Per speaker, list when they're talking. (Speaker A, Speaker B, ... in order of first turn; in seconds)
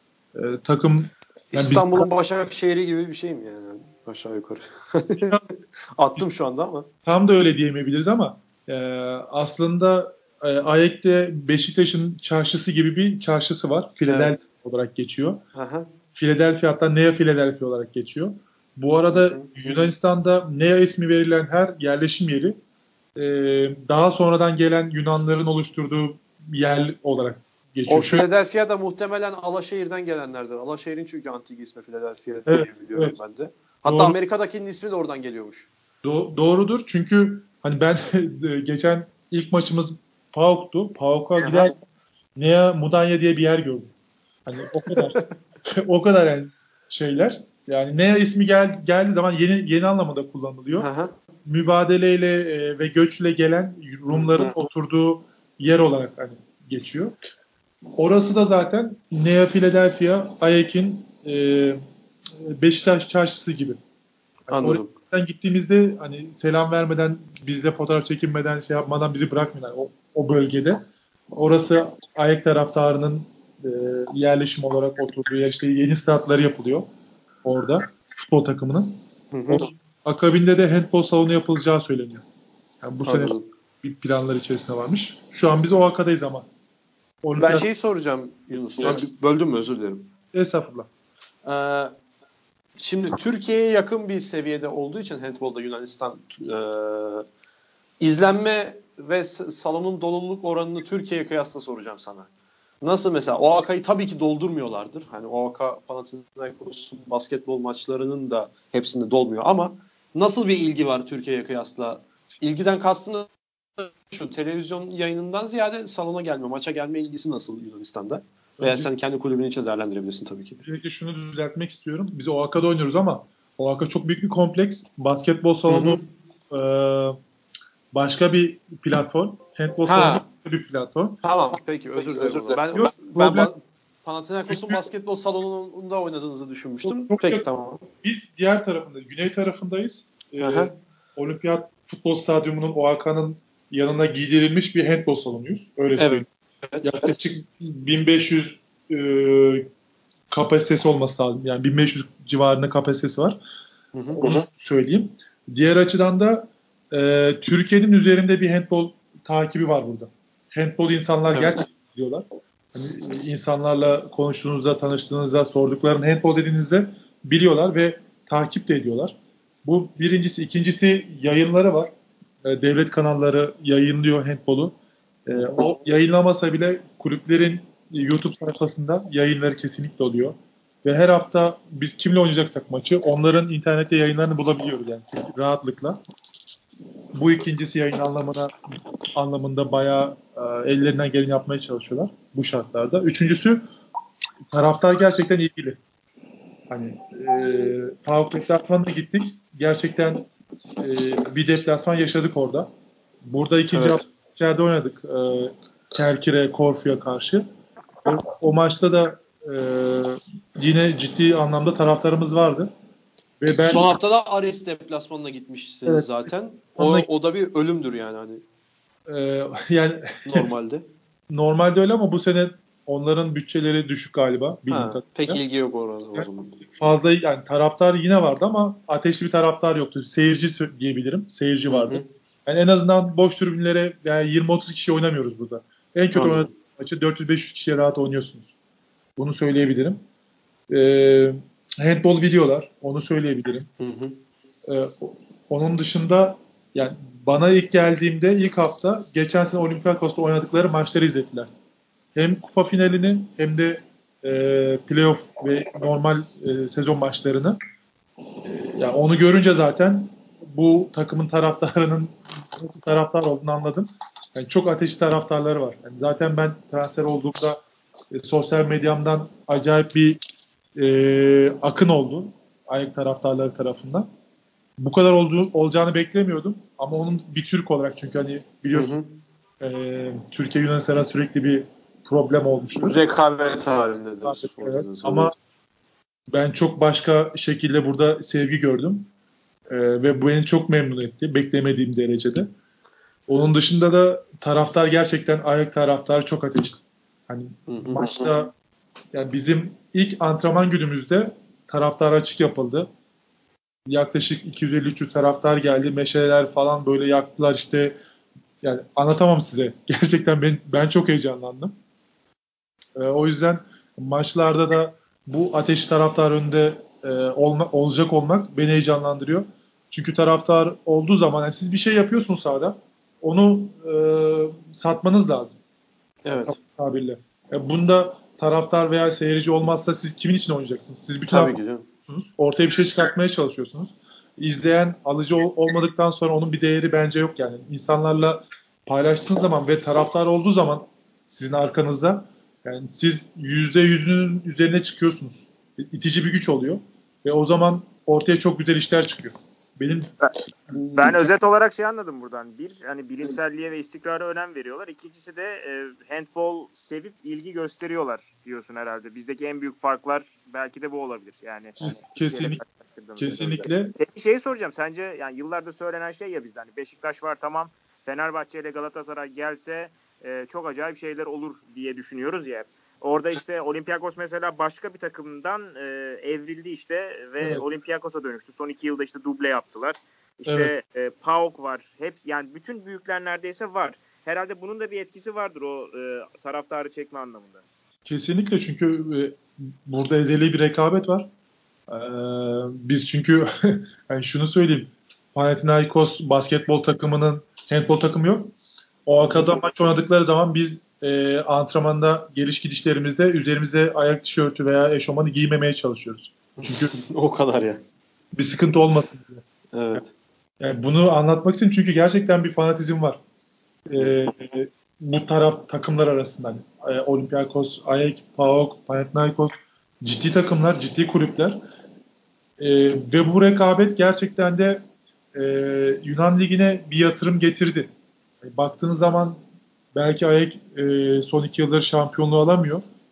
Speaker A: 0.3-2.1, 7.0-15.4, 16.1-22.6, 23.1-28.3, 32.5-33.2, 33.9-34.1, 36.0-41.8, 42.4-43.9, 44.5-50.9, 51.4-57.1, 58.0-61.8, 62.4-63.8, 64.5-70.8, 71.3-76.8, 77.4-79.0, 79.5-82.2, 82.8-86.5, 87.2-87.7, 90.3-90.9, 118.6-118.9, 120.6-127.2, 127.9-131.2, 132.7-133.5, 134.5-134.8, 136.8-137.4, 138.0-146.2, 146.8-149.7, 150.3-153.4, 154.2-171.9, 172.4-174.7, 175.2-186.0, 187.1-188.5, 189.1-193.7, 194.5-195.8, 196.7-200.2, 200.8-202.7, 203.2-207.4, 208.0-212.7, 213.4-213.9, 215.8-217.1, 219.1-220.5, 221.3-225.4, 226.1-238.5, 239.2-240.0, 240.7-243.7, 244.7-251.5, 252.1-257.6, 258.4-267.6, 268.1-270.2, 270.7-274.1, 274.8-278.9, 279.6-283.0, 284.2-285.3, 286.3-289.1, 289.7-292.5, 293.3-298.5, 299.1-302.9, 303.9-307.9, 308.6-311.7, 312.9-325.6, 326.3-350.1, 361.8-362.6, 363.2-363.9, 377.4-377.6, 380.5-380.7, 388.0-391.3, 391.9-398.5, 399.1-406.9, 408.3-410.0, 410.6-413.2, 413.9-421.6, 422.6-424.8, 425.3-427.9, 428.4-429.4, 429.9-432.8
Speaker B: 1.5-6.9, 14.0-14.4, 15.5-15.9, 19.1-19.7, 27.9-35.7, 41.4-41.7, 44.9-45.3, 50.8-51.1, 64.5-64.9, 79.3-79.7, 83.0-83.5, 87.3-90.1, 91.4-91.9, 92.8-97.2, 98.0-102.3, 102.8-120.6, 125.7-126.0, 129.8-130.2, 131.2-137.8, 140.4-140.7, 146.0-147.2, 153.9-154.4, 161.3-161.6, 203.7-204.0, 213.6-218.4, 220.2-220.8, 224.7-226.6, 231.7-232.1, 236.2-236.5, 243.8-244.2, 278.7-279.2, 282.8-285.3, 297.7-298.3, 326.2-326.6, 331.3-331.9, 399.3-399.5, 406.6-407.8, 409.7-410.1
Speaker C: 350.9-387.6